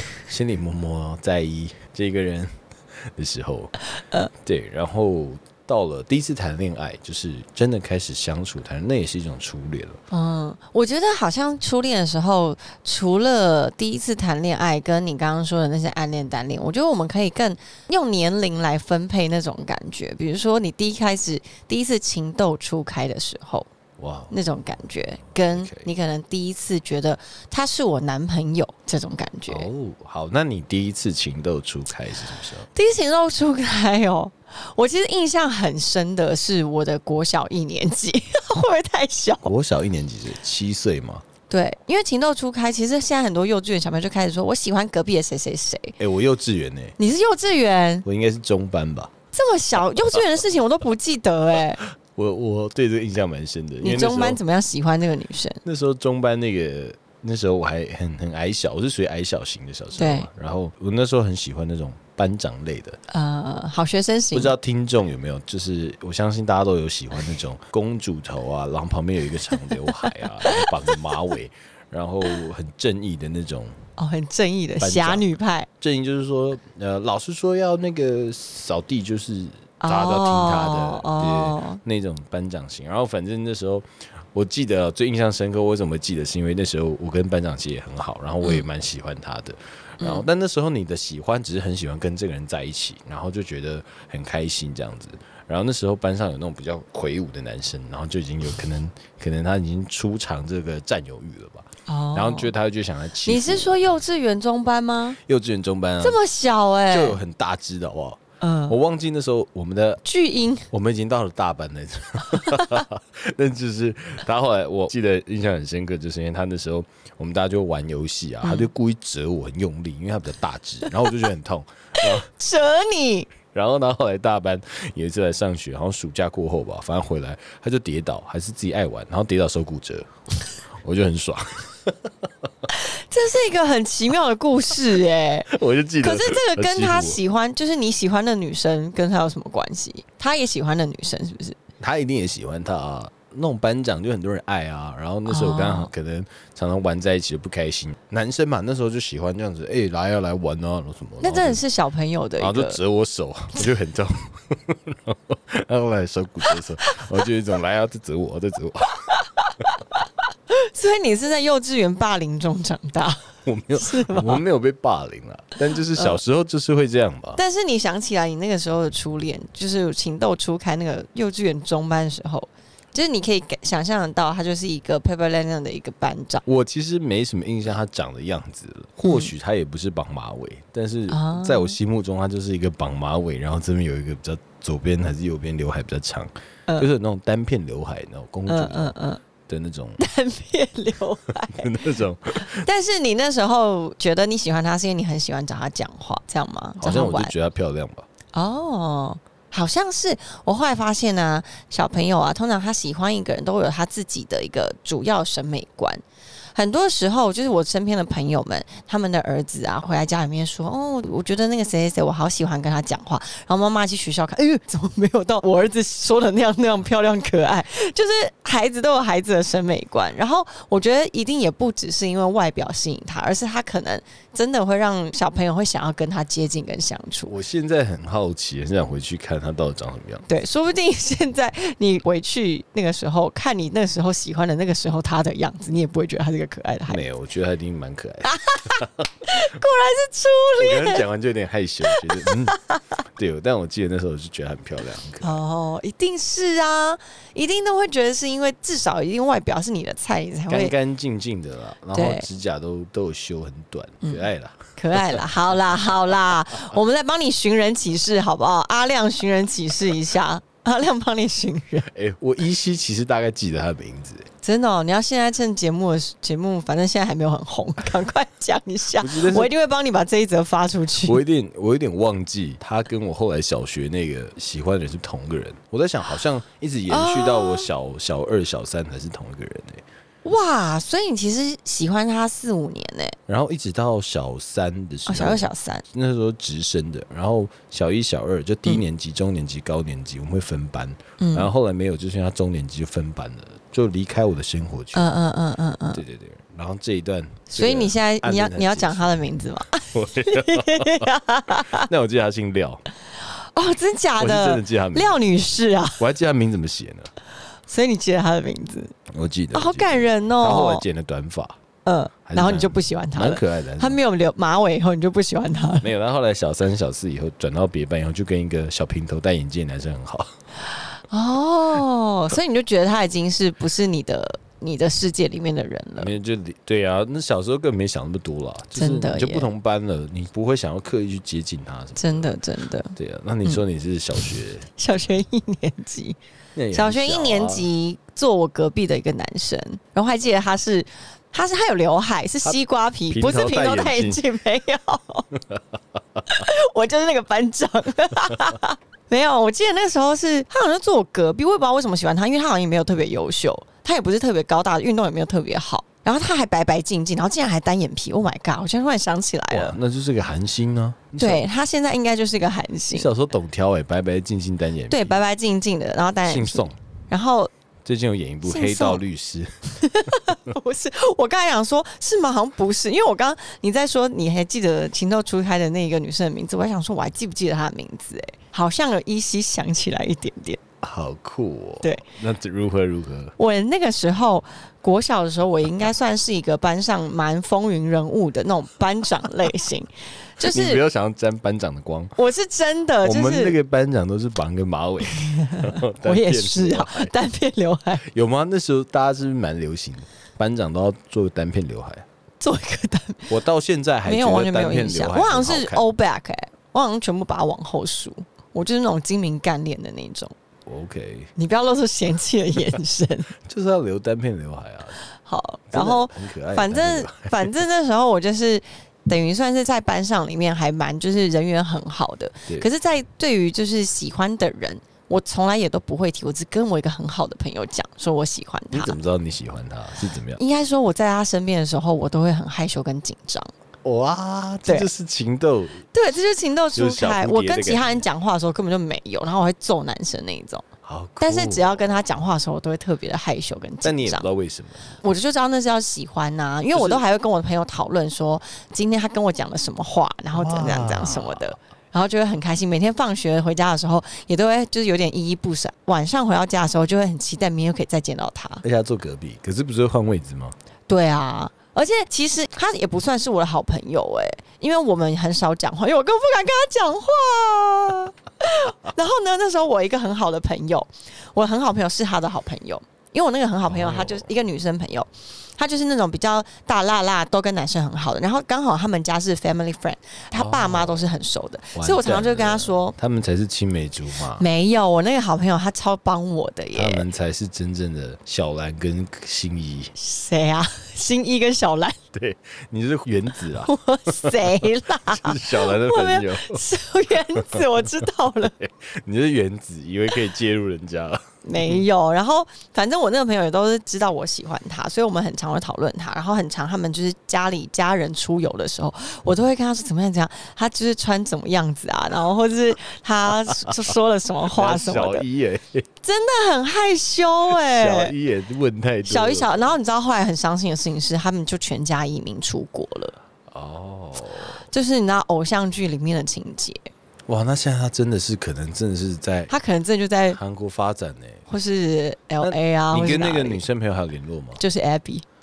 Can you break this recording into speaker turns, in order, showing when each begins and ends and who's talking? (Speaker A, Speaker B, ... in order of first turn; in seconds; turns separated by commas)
Speaker A: 0.3-3.7, Speaker B: 3.9-4.3, Speaker A: 4.4-10.0, Speaker B: 10.1-23.7, Speaker A: 24.0-24.4, Speaker B: 24.3-29.7, Speaker A: 25.3-25.9, Speaker A: 29.5-32.7, Speaker B: 32.7-39.5, Speaker A: 39.4-41.2, Speaker B: 41.5-46.0, Speaker A: 46.0-47.0, Speaker B: 47.0-48.0, Speaker A: 48.0-49.1, Speaker B: 49.3-51.8, Speaker A: 52.0-54.4, Speaker B: 53.8-55.6, Speaker A: 55.6-63.0, Speaker B: 60.0-60.3, Speaker B: 63.1-64.5, Speaker A: 64.3-73.8, Speaker B: 70.0-70.9, Speaker B: 74.0-75.7, Speaker A: 74.8-75.3, Speaker A: 75.8-103.8, Speaker B: 79.8-81.8, Speaker B: 101.9-102.5, Speaker B: 103.2-105.2, Speaker A: 105.2-106.2, Speaker B: 106.0-107.2, Speaker A: 106.9-110.0, Speaker B: 108.4-108.8, Speaker B: 110.0-110.7, Speaker A: 110.7-122.3, Speaker B: 112.3-112.8, Speaker B: 118.4-118.7, Speaker B: 122.0-123.3, Speaker A: 123.5-130.1, Speaker A: 130.8-132.1, Speaker B: 132.7-141.6, Speaker A: 135.5-137.2, Speaker A: 141.8-151.6, Speaker B: 145.2-145.9, Speaker B: 151.2-152.8, Speaker A: 152.4-159.1, Speaker B: 159.2-159.8, Speaker B: 160.5-164.4, Speaker A: 163.4-167.4, Speaker B: 165.9-166.2, Speaker B: 167.3-176.4, Speaker A: 176.4-188.9, Speaker B: 179.0-179.3, Speaker B: 181.1-181.8, Speaker B: 188.5-189.2, Speaker A: 189.4-190.0, Speaker B: 190.0-191.8, Speaker A: 191.5-192.7, Speaker B: 192.4-197.3, Speaker A: 196.8-198.1, Speaker B: 198.3-206.0, Speaker B: 206.5-227.3, Speaker A: 227.2-230.2, Speaker B: 230.3-237.0, Speaker A: 236.9-239.1, Speaker B: 238.2-241.0, Speaker A: 240.6-242.6, Speaker B: 241.9-242.8, Speaker A: 243.1-245.4, Speaker B: 245.2-250.7, Speaker A: 250.5-255.5, Speaker B: 251.9-252.3, Speaker B: 254.0-261.9, Speaker A: 261.9-264.3, Speaker B: 264.4-271.2, Speaker A: 269.0-269.5, Speaker A: 271.0-279.8, Speaker B: 276.9-277.7, Speaker B: 280.2-283.2, Speaker A: 283.3-295.1, Speaker B: 285.1-285.8, Speaker B: 291.2-291.5, Speaker B: 294.9-296.0, Speaker A: 295.9-299.3, Speaker B: 297.5-301.9, Speaker A: 299.9-302.8, Speaker B: 303.2-306.0, Speaker A: 304.2-305.2, Speaker A: 306.0-307.1, Speaker B: 307.7-308.9, Speaker A: 309.1-311.6, Speaker B: 309.5-310.8, Speaker B: 311.8-315.9, Speaker A: 312.3-314.0, Speaker A: 315.8-320.3, Speaker B: 321.1-326.1, Speaker A: 326.0-332.4, Speaker B: 328.8-329.5, Speaker B: 332.0-333.6, Speaker A: 332.9-334.7, Speaker B: 334.8-336.2, Speaker A: 336.6-337.7, Speaker B: 336.7-345.3, Speaker A: 343.1-344.2, Speaker B: 346.2-359.8, Speaker A: 359.5-361.4, Speaker B: 361.2-363.1, Speaker A: 362.9-365.2, Speaker B: 364.9-367.5, Speaker A: 366.2-366.8, Speaker A: 367.8-370.3, Speaker B: 368.4-369.0, Speaker B: 369.8-380.6, Speaker A: 380.8-383.3, Speaker B: 383.4-390.8, Speaker A: 390.4-392.1, Speaker B: 392.2-393.6, Speaker A: 393.0-397.1, Speaker B: 395.1-398.0, Speaker A: 398.0-402.1, Speaker B: 402.4-403.3, Speaker A: 403.3-405.8, Speaker B: 404.0-410.3, Speaker A: 410.6-411.3, Speaker B: 411.4-413.3, Speaker A: 413.4-415.0, Speaker B: 415.2-429.0, Speaker A: 415.7-417.5, Speaker A: 428.7-430.4, Speaker B: 430.4-433.5, Speaker A: 433.8-435.8, Speaker B: 435.9-440.6, Speaker A: 436.7-438.0, Speaker A: 440.8-442.0, Speaker B: 441.2-444.3, Speaker A: 443.8-445.0, Speaker B: 445.0-458.6, Speaker A: 446.7-447.0, Speaker A: 450.3-451.5, Speaker A: 458.6-460.5, Speaker B: 460.9-482.9, Speaker A: 473.6-474.3, Speaker A: 480.3-481.1, Speaker A: 481.7-484.4, Speaker B: 484.4-487.0, Speaker A: 486.7-489.9, Speaker B: 489.9-492.0, Speaker A: 492.1-497.6, Speaker B: 493.6-498.6, Speaker A: 498.6-501.8, Speaker B: 501.4-515.2, Speaker A: 513.5-514.0, Speaker A: 514.5-515.9, Speaker B: 516.0-518.1, Speaker A: 517.5-519.8, Speaker B: 519.0-523.2, Speaker A: 523.5-524.6, Speaker B: 524.7-526.9, Speaker A: 527.3-529.5, Speaker B: 529.5-530.4, Speaker A: 530.3-531.5, Speaker B: 531.5-533.6, Speaker A: 532.4-534.6, Speaker B: 534.6-535.2